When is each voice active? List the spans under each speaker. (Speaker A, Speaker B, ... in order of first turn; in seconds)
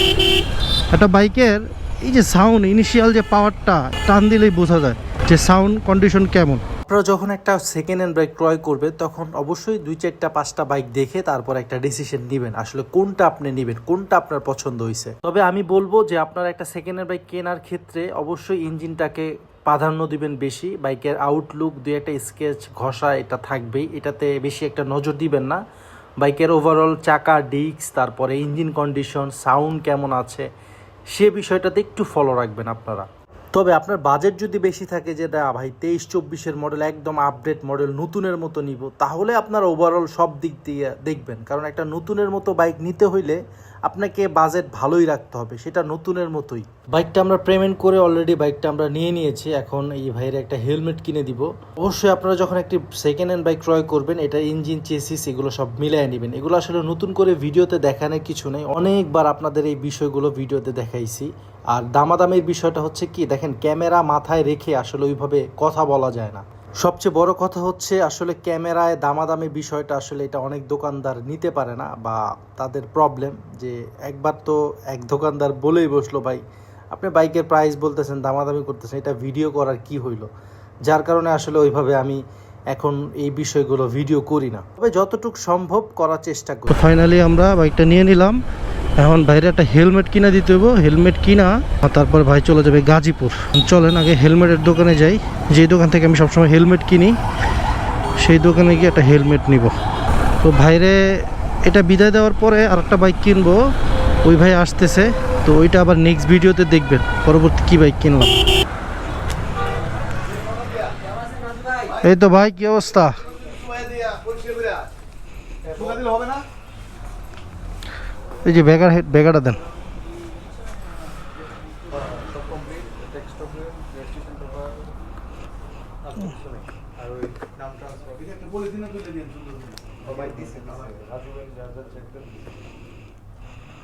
Speaker A: 0.9-6.6, 86.7-88.4, 89.0-97.2, 98.2-99.7, 100.4-103.6, 104.2-108.3, 112.0-113.2, 118.4-119.6
Speaker B: 6.9-25.6, 26.2-30.5, 31.1-80.3, 80.8-86.9
Speaker C: 115.7-116.4, 122.2-124.7, 126.2-126.5, 127.4-129.3, 130.1-132.2